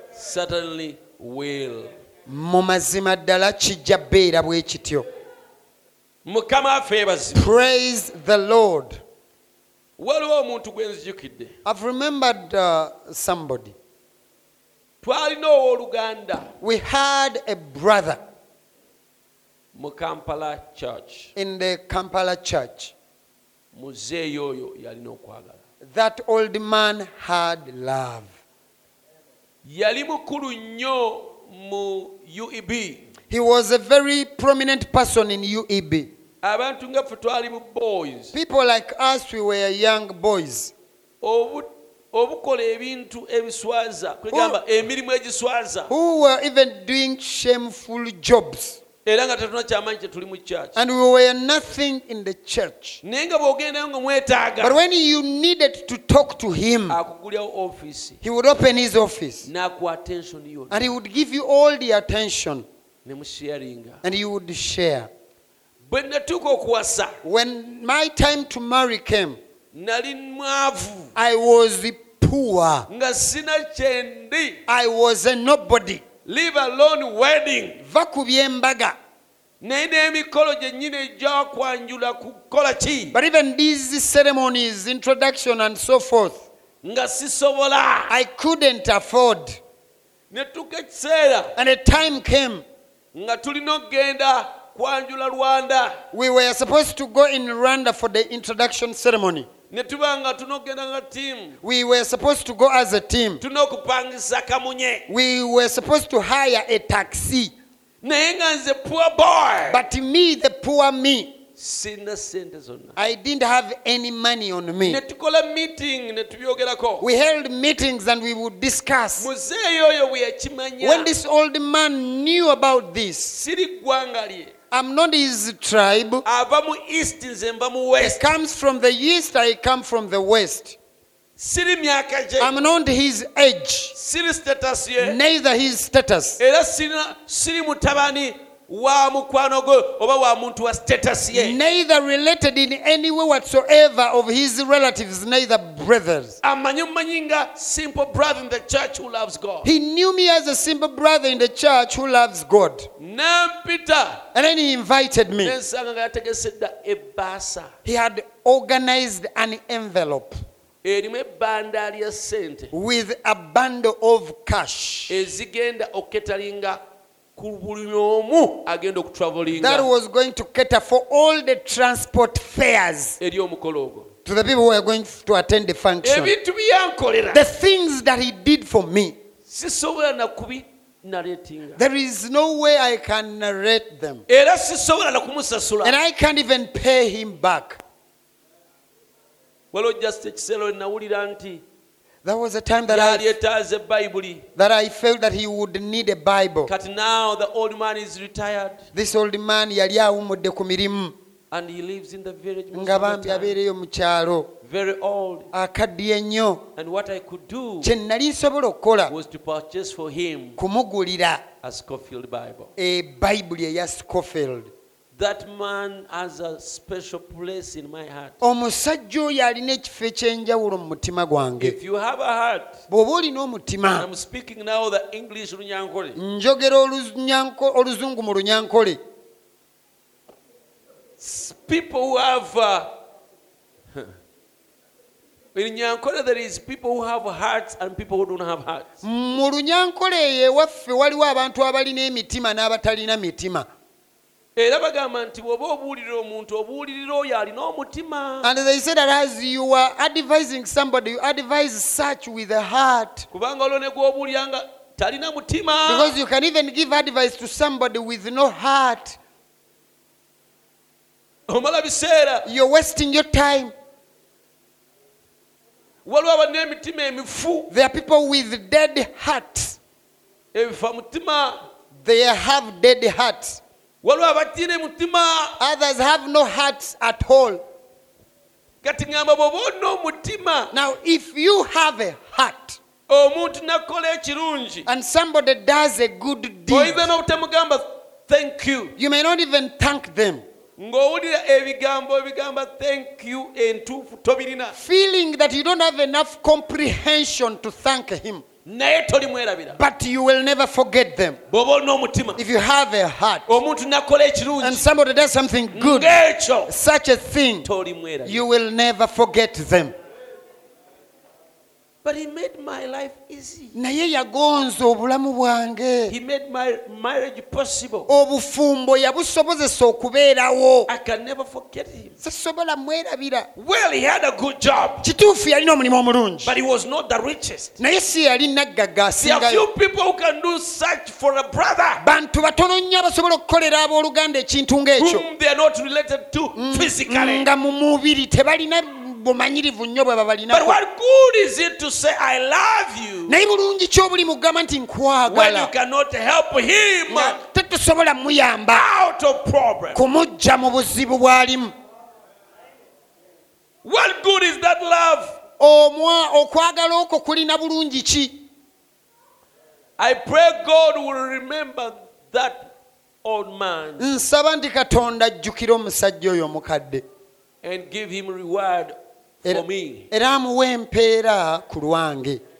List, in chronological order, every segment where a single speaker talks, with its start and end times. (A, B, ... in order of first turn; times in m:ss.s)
0:00.1-0:01.9 A
0:02.3-0:05.0 B
0:06.2-0:07.5 A
0:07.3-0:09.0 B
0:10.0-0:11.5 A
0:11.6-0:13.7 B
0:15.0-0:16.5 A
0:16.6-0:18.2 B
0:19.7-0:21.3 A
0:21.4-0:22.9 B
0:23.7-0:25.6 A
0:25.8-0:28.3 B
0:29.6-0:33.1 A
0:33.3-0:36.1 B
0:36.4-0:38.3 A
0:38.3-0:40.7 B
0:41.2-0:45.9 A
0:44.3-0:44.6 B
0:45.9-0:48.8 B
0:49.0-0:50.8 A
0:50.7-0:53.0 B
0:53.0-0:54.8 A
0:54.6-0:57.0 B
0:56.9-0:58.2 A
0:58.2-0:59.5 B
0:59.4-1:00.9 A
1:00.7-1:02.6 B
1:03.0-1:04.0 A
1:04.0-1:05.1 B
1:05.9-1:07.2 A
1:07.2-1:09.4 B
1:09.7-1:11.1 A
1:11.1-1:12.9 B
1:12.9-1:14.6 A
1:14.7-1:16.0 B
1:16.2-1:17.8 A
1:17.8-1:19.0 B
1:19.6-1:23.2 A
1:23.1-1:26.5 B
1:26.8-1:28.2 A
1:28.1-1:29.6 B
1:30.3-1:31.5 A
1:31.6-1:32.6 B
1:33.1-1:36.0 A
1:36.1-1:39.5 B
1:39.7-1:41.6 A
1:41.6-1:43.4 B
1:43.4-1:45.1 A
1:45.1-1:47.5 B
1:48.0-1:49.8 A
1:49.7-1:51.4 B
1:51.6-1:53.0 A
1:53.0-1:55.0 B
1:54.8-1:57.0 A
1:57.0-1:59.3 B
1:59.2-2:01.1 A
2:00.8-2:03.4 B
2:03.3-2:04.5 A
2:04.7-2:06.2 B
2:06.2-2:08.2 A
2:08.0-2:10.8 B
2:11.4-2:12.5 A
2:12.4-2:13.9 B
2:13.9-2:15.2 A
2:15.0-2:16.4 B
2:16.4-2:21.6 A
2:21.3-2:26.4 B
2:26.4-2:29.7 A
2:29.6-2:32.9 B
2:33.0-2:34.2 A
2:34.3-2:35.5 B
2:35.4-2:37.7 A
2:37.8-2:40.4 B
2:40.8-2:42.7 A
2:42.7-2:45.2 B
2:45.1-2:46.8 A
2:47.4-2:49.9 A
2:49.5-2:53.2 B
2:53.2-2:54.1 A
2:54.2-2:56.3 B
2:56.0-2:57.4 A
2:57.3-2:59.2 B
2:59.4-3:01.8 A
3:01.8-3:04.2 B
3:04.3-3:06.0 A
3:05.8-3:07.8 B
3:09.7-3:11.6 A
3:12.2-3:13.3 B
3:12.9-3:14.4 A
3:14.6-3:16.7 B
3:16.7-3:18.9 A
3:18.9-3:21.1 B
3:21.5-3:23.6 A
3:22.7-3:24.5 B
3:24.6-3:25.5 A
3:25.5-3:26.6 B
3:26.8-3:27.9 A
3:27.8-3:29.1 B
3:29.1-3:30.6 A
3:30.6-3:31.4 B
3:31.6-3:32.7 A
3:32.8-3:34.7 B
3:35.1-3:38.4 A
3:38.4-3:41.8 B
3:41.6-3:42.8 A
3:42.9-3:44.0 B
3:43.9-3:46.2 A
3:46.1-3:49.0 B
3:51.2-3:52.9 A
3:55.5-3:58.9 A
3:59.0-4:03.7 B
4:04.6-4:08.5 A
4:08.4-4:13.2 B
4:13.3-4:16.2 A
4:15.8-4:19.2 B
4:21.5-4:22.5 A
4:22.4-4:23.7 B
4:26.0-4:27.7 A
4:27.7-4:29.8 B
4:30.5-4:31.6 A
4:32.0-4:33.6 B
4:34.0-4:35.6 A
4:35.6-4:37.6 B
4:38.8-4:40.7 A
4:40.7-4:42.8 B
4:43.1-4:44.9 A
4:44.8-4:47.0 B
4:46.7-4:48.9 A
4:49.0-4:50.4 B
4:50.8-4:54.7 A
4:54.7-4:58.4 B
4:58.6-4:59.8 A
4:59.8-5:01.4 B
5:01.5-5:02.4 A
5:02.4-5:03.6 B
5:03.5-5:04.8 A
5:04.6-5:06.2 B
5:05.7-5:06.7 A
5:06.7-5:07.7 B
5:07.6-5:08.4 A
5:08.2-5:09.9 B
5:12.0-5:13.7 A
5:13.7-5:16.1 B
5:16.1-5:18.1 A
5:18.1-5:20.9 B
5:20.9-5:22.1 A
5:22.2-5:23.5 B
5:23.6-5:25.1 A
5:25.0-5:26.5 B
5:26.4-5:27.8 A
5:27.8-5:29.6 B
5:29.2-5:32.0 A
5:32.0-5:35.2 B
5:35.0-5:37.4 A
5:36.5-5:40.8 B
5:40.5-5:43.4 A
5:43.2-5:45.7 B
5:45.3-5:47.4 A
5:47.1-5:48.8 B
5:48.7-5:50.0 A
5:49.9-5:51.7 B
5:53.8-5:55.4 A
5:55.6-5:58.4 B
6:00.0-6:02.7 A
6:03.2-6:04.1 A
6:04.0-6:07.0 B
6:07.6-6:10.1 A
6:09.4-6:12.4 B